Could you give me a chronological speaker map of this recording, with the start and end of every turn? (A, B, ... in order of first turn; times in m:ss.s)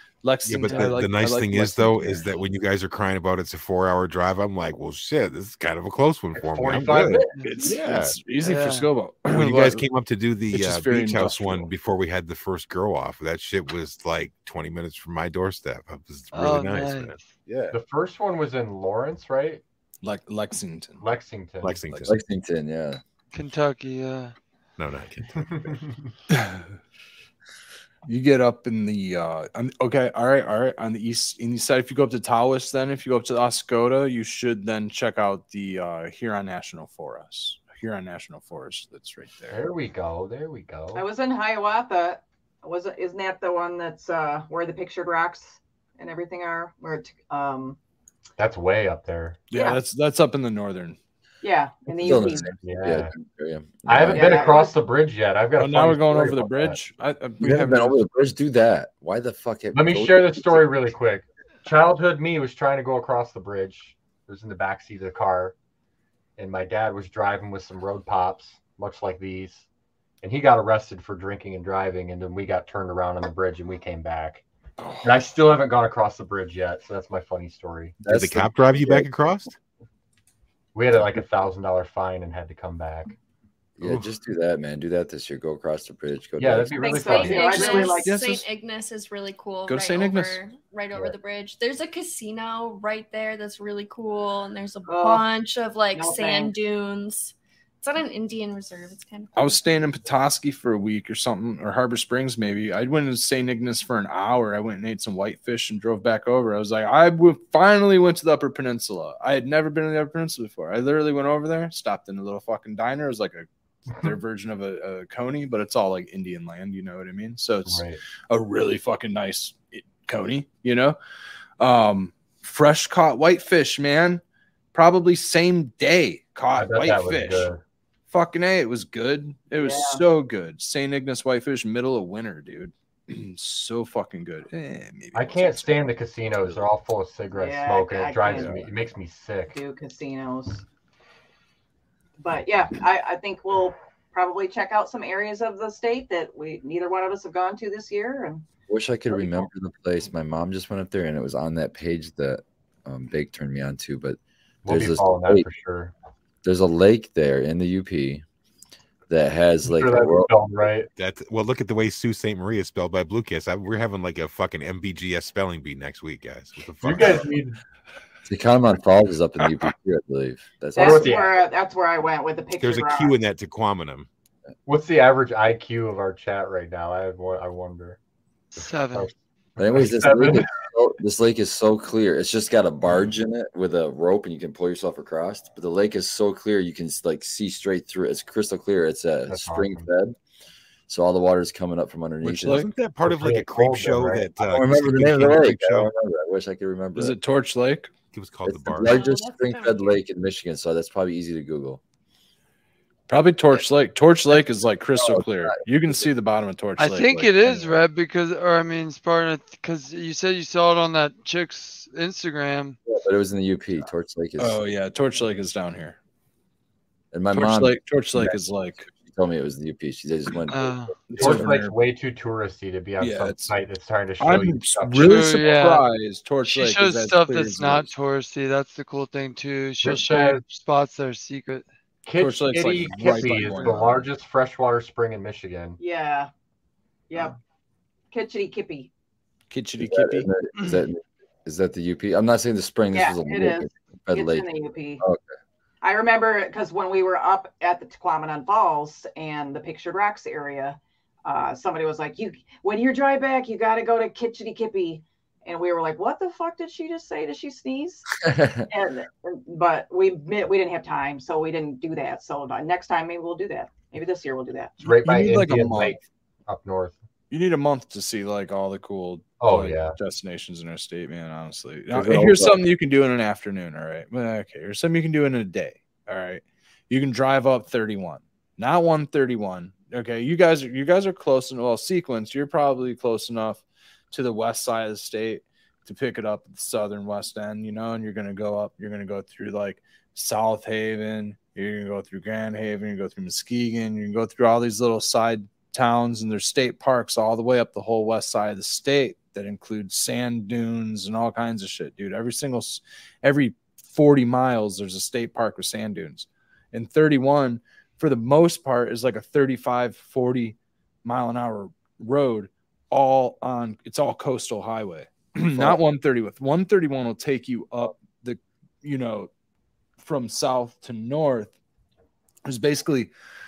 0:00.2-0:02.4 A
0:00.4-0:08.2 B
0:06.3-0:07.3 C
0:07.3-0:07.7 D
0:07.4-0:09.9 A
0:08.4-0:08.9 D
0:09.3-0:17.7 B
0:10.5-0:11.7 A
0:16.3-0:17.3 D
0:17.7-0:19.6 C
0:20.0-0:21.0 A
0:21.0-0:21.8 C
0:21.6-0:22.2 B
0:21.8-0:22.2 A
0:22.0-0:23.0 E
0:23.3-0:24.3 D
0:24.8-0:25.8 B
0:25.4-0:26.1 C
0:26.3-0:26.6 A
0:28.0-0:39.6 A
0:39.5-0:41.0 C
0:40.9-0:47.8 F
0:48.4-0:49.4 C
0:49.5-0:51.0 A
0:49.5-0:49.8 F
0:51.4-0:52.5 F
0:51.9-0:54.6 E
0:52.1-0:53.1 C
0:53.8-0:56.8 C
0:54.1-0:54.7 F
0:55.6-0:58.0 A
0:57.4-1:00.7 E
0:59.7-1:05.5 C
1:06.4-1:09.6 C
1:10.2-1:14.4 C
1:14.8-1:15.1 A
1:15.0-1:17.9 C
1:18.0-1:19.1 E
1:18.1-1:19.6 B
1:20.7-1:23.1 C
1:23.8-1:27.4 E
1:26.4-1:27.9 C
1:26.8-1:28.2 F
1:26.9-1:39.6 G
1:27.6-1:28.5 A
1:29.6-1:30.4 A
1:34.9-1:35.3 F
1:35.9-1:36.5 F
1:39.3-2:01.0 A
1:57.6-1:58.0 C
2:01.6-2:04.2 A
2:04.7-2:07.5 A
2:06.5-2:07.6 C
2:08.1-2:15.9 A
2:09.6-2:10.0 F
2:15.1-2:19.6 C
2:17.3-2:18.7 F
2:19.5-2:20.6 F
2:22.2-2:28.4 F
2:28.7-2:35.4 E
2:34.6-2:35.9 C
2:36.4-2:38.2 E
2:39.1-2:40.3 E
2:39.6-2:40.9 C
2:41.0-2:47.4 B
2:46.8-2:47.6 C
2:48.3-2:51.2 E
2:50.7-2:53.1 F
2:50.8-2:51.3 C
2:52.6-2:54.1 B
2:54.7-2:58.0 C
2:58.5-2:59.1 D
2:58.6-2:59.1 C
2:59.6-3:10.2 E
2:59.7-3:00.5 C
3:09.3-3:09.9 C
3:10.9-3:12.7 E
3:12.2-3:15.9 B
3:12.3-3:12.7 A
3:13.0-3:14.3 C
3:14.4-3:17.2 E
3:17.0-3:17.9 A
3:18.1-3:19.0 B
3:18.4-3:21.8 E
3:18.8-3:19.9 G
3:23.1-3:27.6 A
3:24.9-3:26.0 E
3:26.8-3:32.8 D
3:27.5-3:27.8 E
3:32.9-3:34.6 E
3:34.4-3:36.0 A
3:37.1-3:41.6 E
3:37.3-3:38.9 A
3:40.5-3:41.0 D
3:41.1-3:41.8 A
3:41.2-3:45.5 C
3:43.0-3:43.6 A
3:44.2-3:47.9 A
3:45.0-3:45.9 D
3:46.4-3:51.6 D
3:49.8-3:50.4 C
3:52.0-3:55.8 C
3:52.1-3:54.1 A
3:55.8-3:56.3 F
3:57.1-3:57.4 F
3:58.1-3:58.9 F
3:59.5-4:00.3 A
3:59.8-4:05.3 E
4:00.5-4:00.8 D
4:02.9-4:05.0 F
4:05.8-4:24.8 F
4:24.8-4:27.0 C
4:25.0-4:26.0 A
4:27.3-5:19.3 A
4:29.4-4:30.0 C
4:31.9-4:32.6 E
5:15.4-5:15.8 E
5:20.0-5:21.5 A
5:22.4-5:23.1 A